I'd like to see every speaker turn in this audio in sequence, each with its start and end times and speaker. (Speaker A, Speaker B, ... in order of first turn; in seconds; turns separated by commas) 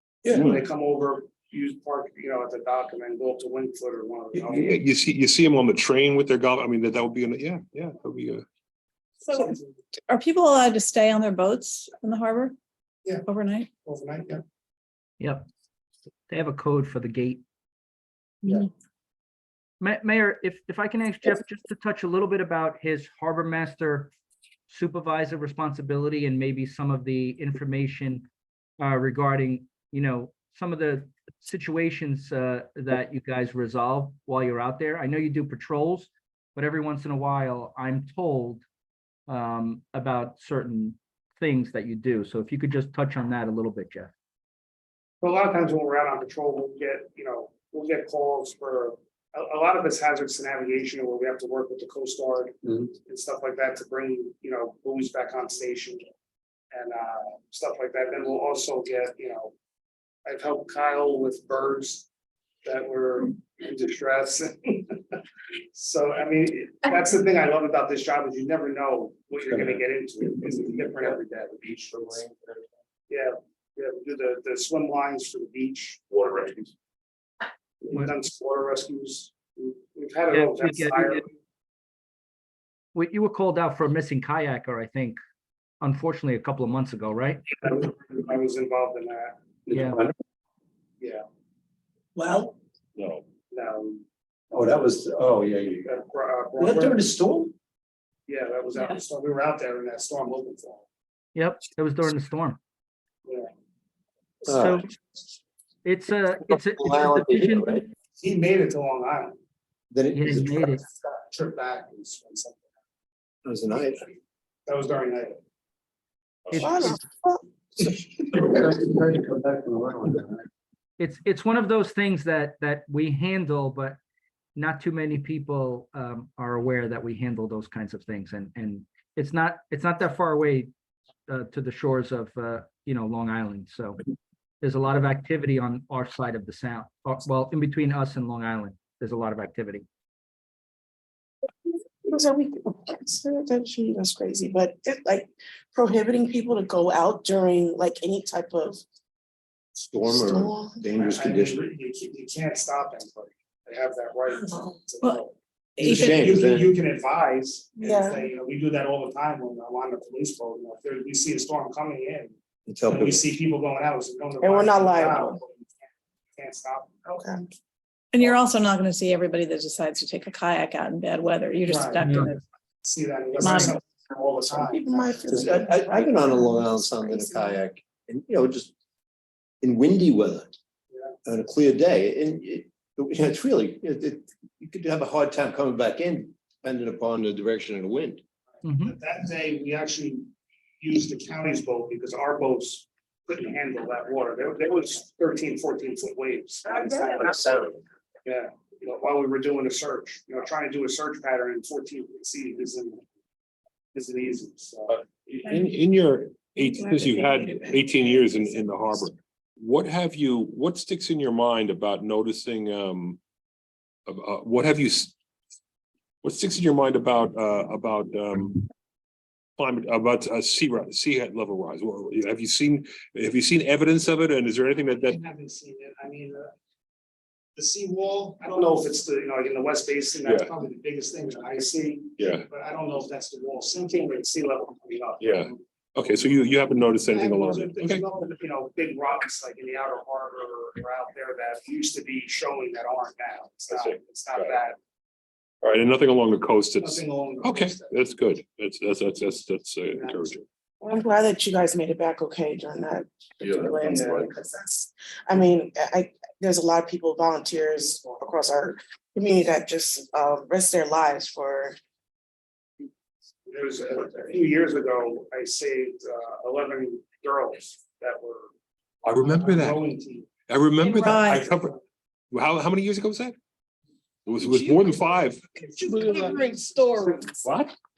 Speaker A: 0.2-0.6, Speaker B: 0.4-4.8, Speaker A: 4.3-8.4, Speaker B: 9.3-9.8, Speaker C: 9.3-9.6, Speaker C: 10.1-12.5, Speaker C: 13.3-13.7, Speaker B: 13.8-14.4, Speaker D: 15.2-15.4, Speaker D: 16.3-17.4, Speaker B: 18.4-18.7, Speaker D: 19.8-24.1, Speaker D: 24.7-28.2, Speaker D: 28.8-38.6, Speaker D: 39.3-44.1, Speaker B: 45.2-56.0, Speaker B: 56.7-59.5, Speaker B: 60.2-62.1, Speaker B: 62.6-65.2, Speaker B: 65.7-72.3, Speaker B: 73.1-76.5, Speaker B: 77.8-81.2, Speaker D: 80.3-81.2, Speaker D: 82.9-85.2, Speaker D: 85.8-87.4, Speaker B: 87.6-89.4, Speaker E: 89.7-90.1, Speaker D: 89.7-90.0, Speaker E: 92.2-92.5, Speaker A: 93.0-93.2, Speaker B: 93.5-94.0, Speaker E: 94.5-95.9, Speaker B: 95.8-97.1, Speaker E: 96.6-97.5, Speaker B: 98.3-100.8, Speaker D: 101.3-102.6, Speaker E: 104.5-104.8, Speaker D: 104.5-104.9, Speaker D: 105.8-107.8, Speaker E: 106.5-107.8, Speaker B: 108.2-109.4, Speaker E: 109.9-110.8, Speaker D: 110.1-110.8, Speaker B: 110.8-112.7, Speaker E: 113.4-114.0, Speaker B: 114.7-115.4, Speaker D: 116.5-117.0, Speaker F: 116.5-117.4, Speaker E: 118.3-120.3, Speaker D: 121.0-124.0, Speaker D: 124.5-130.7, Speaker D: 131.3-134.0, Speaker D: 134.6-139.8, Speaker F: 141.7-148.8, Speaker E: 149.8-151.6, Speaker F: 150.1-150.8, Speaker B: 151.0-162.3, Speaker C: 155.8-156.1, Speaker E: 155.8-156.7, Speaker F: 157.8-158.2, Speaker E: 162.7-163.2, Speaker B: 162.9-165.7, Speaker F: 164.4-165.4, Speaker B: 166.3-167.0, Speaker F: 167.1-167.4, Speaker C: 168.1-172.4, Speaker B: 171.7-172.1, Speaker D: 172.0-172.3, Speaker B: 172.8-175.6, Speaker C: 173.4-173.8, Speaker F: 174.7-177.6, Speaker E: 175.3-178.7, Speaker E: 179.6-180.5, Speaker E: 181.2-188.2, Speaker B: 188.6-197.3, Speaker D: 188.6-188.9, Speaker E: 196.8-197.7, Speaker B: 198.2-203.0, Speaker B: 203.9-205.0, Speaker A: 204.9-213.2, Speaker C: 206.6-207.8, Speaker A: 214.1-215.1, Speaker A: 216.2-218.7, Speaker A: 219.6-225.2, Speaker B: 224.9-226.5, Speaker B: 227.6-235.6, Speaker A: 230.2-230.5, Speaker A: 232.2-232.5, Speaker A: 235.2-238.0, Speaker B: 237.0-244.8, Speaker A: 243.7-244.5, Speaker A: 245.6-250.4, Speaker B: 246.8-248.0, Speaker B: 249.9-250.3, Speaker F: 250.8-261.8, Speaker B: 253.8-254.2, Speaker B: 257.8-258.2, Speaker B: 263.4-268.5, Speaker A: 269.0-269.9, Speaker B: 269.1-270.3, Speaker A: 270.5-271.8, Speaker C: 270.8-271.5, Speaker A: 272.3-273.4, Speaker A: 274.2-275.4, Speaker E: 274.5-274.8, Speaker B: 275.6-277.3, Speaker E: 275.8-276.4, Speaker C: 276.1-277.2, Speaker A: 277.4-277.8